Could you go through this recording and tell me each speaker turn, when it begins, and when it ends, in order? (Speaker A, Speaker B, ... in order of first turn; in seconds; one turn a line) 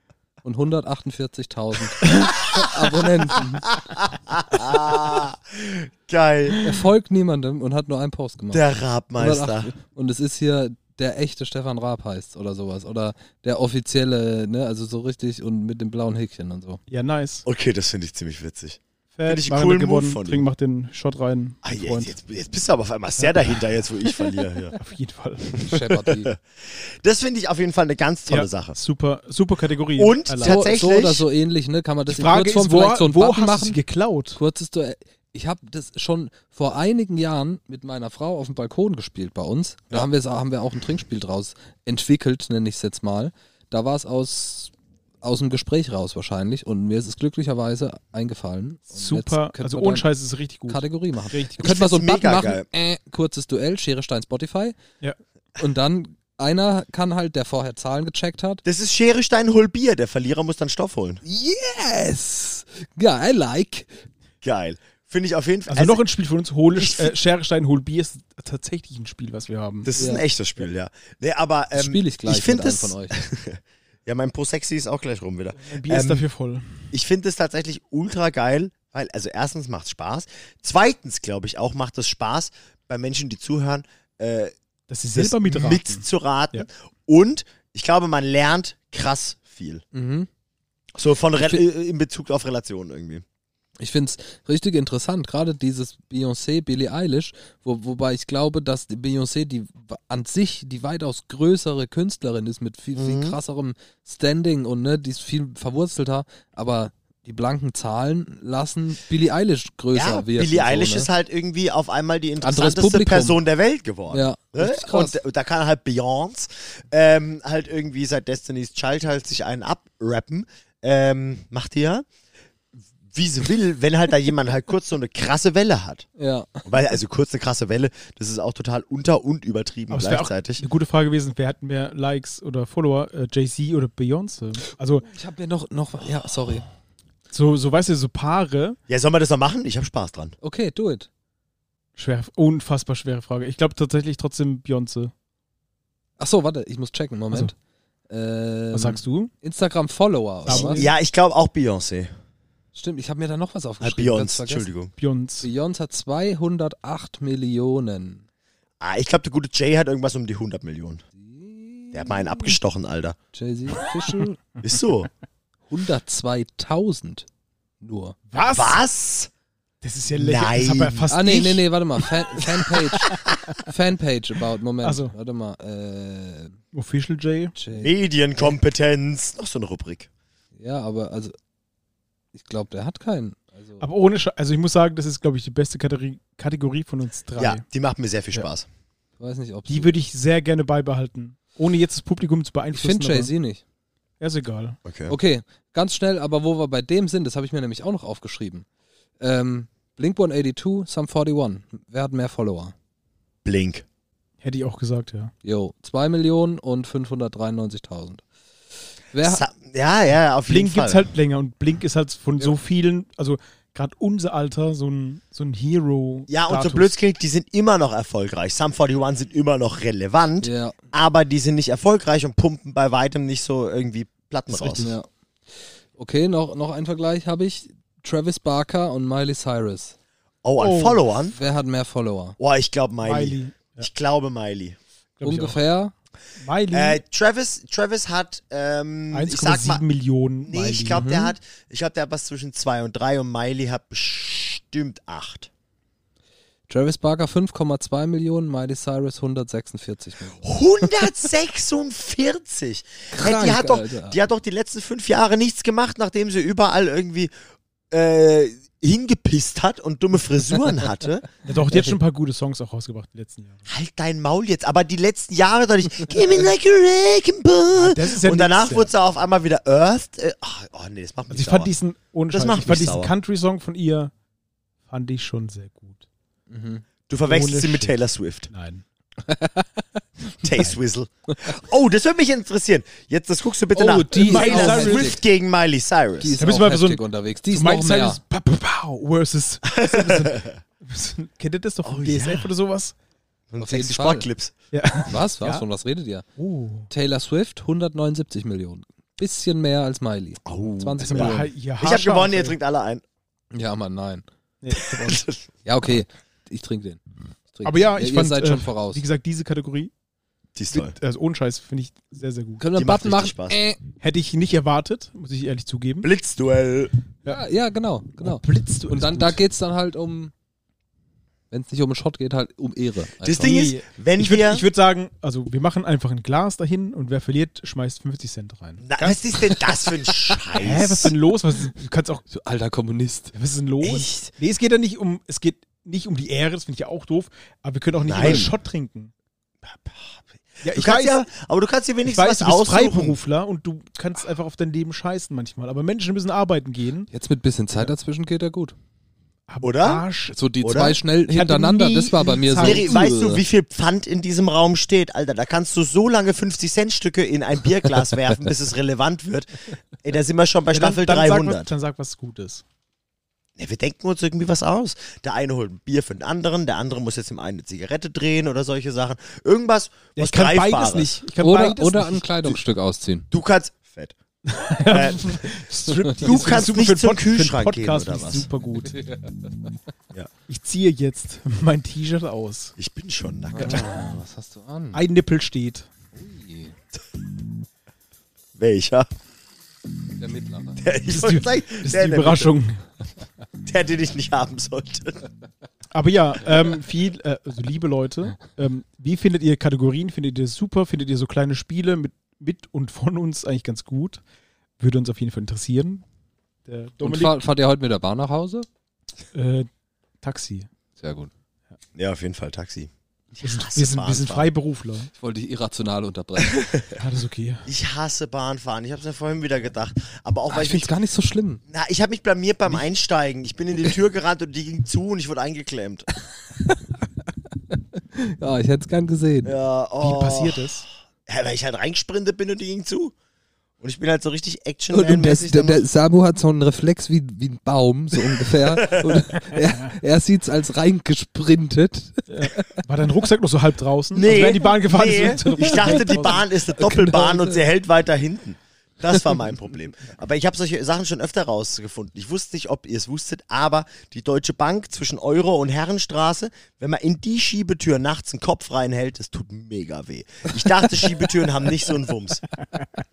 Speaker A: 0.4-3.7
Speaker B: 3.7-6.6
Speaker A: 6.6-8.6
Speaker B: 8.5-9.7
Speaker A: 9.2-16.8
Speaker C: 16.9-17.4
Speaker B: 17.4-20.4
Speaker C: 19.1-22.1
Speaker B: 21.6-24.8
Speaker C: 23.2-23.5
Speaker C: 24.8-25.6
Speaker B: 25.6-28.8
Speaker A: 25.6-26.3
Speaker C: 28.3-30.6
Speaker B: 29.9-31.2
Speaker A: 30.4-33.8
Speaker C: 32.1-34.4
Speaker A: 34.4-44.7
Speaker A: 45.2-50.1
Speaker C: 48.9-51.6
Speaker A: 50.7-54.8
Speaker B: 51.6-52.6
Speaker A: 55.6-58.6
Speaker B: 58.6-61.2
Speaker A: 61.2-63.9
Speaker B: 64.4-66.0
Speaker C: 65.7-69.9
Speaker B: 66.7-67.1
Speaker B: 69.8-76.2
Speaker A: 70.0-70.2
Speaker A: 71.7-73.2
Speaker C: 75.6-76.7
Speaker B: 76.9-84.5
Speaker C: 84.9-86.7
Speaker B: 85.1-89.8
Speaker A: 89.9-90.3
Speaker B: 91.0-93.2
Speaker A: 93.8-111.1
Speaker B: 103.0-103.4
Speaker B: 109.9-122.0
Speaker A: 112.4-113.4
Speaker A: 114.1-115.2
Speaker B: 123.1-126.0
Speaker A: 126.2-126.6
Speaker B: 126.6-130.6
Speaker C: 129.9-135.1
Speaker A: 135.0-136.7
Speaker C: 137.3-138.8
Speaker B: 138.9-140.4
Speaker A: 140.4-141.1
Speaker C: 142.0-145.1
Speaker A: 146.2-147.5
Speaker A: 148.1-150.8
Speaker C: 148.7-149.3
Speaker C: 150.4-150.9
Speaker B: 150.5-152.1
Speaker A: 152.7-154.7
Speaker B: 153.8-154.9
Speaker C: 155.0-155.5
Speaker A: 155.4-158.2
Speaker B: 158.8-161.0
Speaker A: 161.2-162.6
Speaker B: 161.9-163.2
Speaker A: 163.3-164.4
Speaker B: 164.6-165.1
Speaker A: 165.7-167.3
Speaker A: 167.8-168.2
Speaker C: 168.3-168.8
Speaker B: 168.4-169.3
Speaker C: 169.8-171.6
Speaker B: 170.1-171.1
Speaker A: 171.1-176.6
Speaker C: 173.0-173.3
Speaker C: 174.8-175.1
Speaker C: 176.7-177.6
Speaker A: 177.6-177.9
Speaker B: 177.7-180.1
Speaker A: 180.6-181.3
Speaker A: 182.3-183.8
Speaker C: 183.8-187.6
Speaker B: 187.4-188.7
Speaker A: 189.2-189.9
Speaker C: 189.7-193.3
Speaker A: 192.7-193.6
Speaker C: 194.2-194.8
Speaker B: 194.8-195.2
Speaker A: 195.1-198.6
Speaker A: 199.2-202.7
Speaker B: 203.4-203.8
Speaker C: 204.4-205.3
Speaker A: 205.4-208.2
Speaker A: 209.1-209.4
Speaker B: 209.2-211.1
Speaker C: 210.5-216.9
Speaker B: 216.3-224.9
Speaker A: 220.4-220.8
Speaker C: 224.5-224.9
Speaker A: 224.8-225.1
Speaker A: 226.0-229.9
Speaker B: 230.4-231.4
Speaker C: 230.6-231.0
Speaker A: 231.3-232.4
Speaker B: 232.4-234.8
Speaker C: 233.0-233.9
Speaker C: 235.2-235.6
Speaker A: 235.2-235.9
Speaker C: 236.4-237.0
Speaker B: 236.7-239.8
Speaker C: 239.1-241.1
Speaker B: 240.4-245.5
Speaker A: 240.9-241.3
Speaker A: 246.7-250.9
Speaker B: 250.4-257.3
Speaker A: 253.1-254.2
Speaker B: 257.9-261.3
Speaker C: 261.4-263.6
Speaker B: 263.7-271.7
Speaker C: 267.7-268.9
Speaker C: 271.3-274.1
Speaker B: 272.3-273.1
Speaker C: 274.9-276.0
Speaker A: 276.5-276.8
Speaker B: 277.1-278.5
Speaker C: 277.2-278.0
Speaker C: 278.5-278.8
Speaker A: 279.2-279.8
Speaker B: 280.4-286.3
Speaker A: 283.7-285.2
Speaker C: 284.1-285.2
Speaker A: 286.2-288.2
Speaker C: 286.4-292.9
Speaker B: 289.7-290.6
Speaker B: 291.8-292.5
Speaker B: 293.5-294.5
Speaker A: 293.6-294.3
Speaker C: 294.7-295.6
Speaker A: 295.1-296.3
Speaker C: 296.4-296.9
Speaker A: 296.9-301.5
Speaker B: 300.4-303.0
Speaker C: 301.0-302.6
Speaker A: 303.5-304.2
Speaker C: 304.6-305.2
Speaker B: 304.7-305.4
Speaker A: 305.6-309.0
Speaker C: 307.6-309.9
Speaker B: 310.6-310.9
Speaker C: 310.7-312.6
Speaker A: 312.6-313.8
Speaker B: 312.7-313.6
Speaker C: 314.0-316.1
Speaker B: 316.0-316.9
Speaker A: 317.3-320.3
Speaker C: 318.2-319.4
Speaker A: 321.5-323.7
Speaker B: 323.2-324.6
Speaker C: 323.4-329.7
Speaker B: 328.8-331.1
Speaker C: 330.5-332.2
Speaker A: 332.3-333.3
Speaker C: 333.3-339.1
Speaker B: 333.8-334.3
Speaker B: 338.0-338.5
Speaker B: 339.6-343.2
Speaker C: 340.6-341.2
Speaker C: 342.1-347.1
Speaker A: 347.1-348.7
Speaker C: 349.5-350.4
Speaker B: 349.6-350.0
Speaker A: 350.3-353.4
Speaker B: 350.6-351.0
Speaker C: 351.3-352.9
Speaker B: 352.6-361.7
Speaker C: 360.7-362.6
Speaker B: 363.6-371.1
Speaker C: 370.1-372.3
Speaker A: 371.4-373.3
Speaker B: 373.3-374.1
Speaker C: 374.4-379.0
Speaker B: 374.9-375.4
Speaker A: 375.9-376.6
Speaker B: 376.2-378.5
Speaker A: 378.9-379.5
Speaker C: 380.5-382.7
Speaker B: 382.8-384.1
Speaker A: 383.5-385.0
Speaker C: 384.9-385.9
Speaker A: 386.1-386.7
Speaker B: 388.6-389.1
Speaker A: 390.2-390.8
Speaker B: 390.8-392.5
Speaker C: 391.1-392.8
Speaker B: 393.6-395.2
Speaker C: 395.9-404.2
Speaker C: 404.8-406.0
Speaker C: 406.6-407.4
Speaker A: 407.0-408.7
Speaker C: 409.3-409.7
Speaker C: 410.2-410.7
Speaker A: 411.0-411.3
Speaker B: 411.9-414.5
Speaker C: 413.4-415.1
Speaker A: 415.2-416.6
Speaker B: 416.4-416.9
Speaker C: 417.0-417.7
Speaker B: 417.6-420.9
Speaker A: 420.5-421.6
Speaker B: 421.7-426.1
Speaker A: 427.7-429.5
Speaker B: 429.4-430.7
Speaker C: 430.0-430.9
Speaker B: 431.3-433.1
Speaker B: 433.8-435.8
Speaker A: 434.9-442.7
Speaker B: 438.7-439.2
Speaker C: 442.3-446.4
Speaker B: 444.1-462.4
Speaker A: 445.6-447.6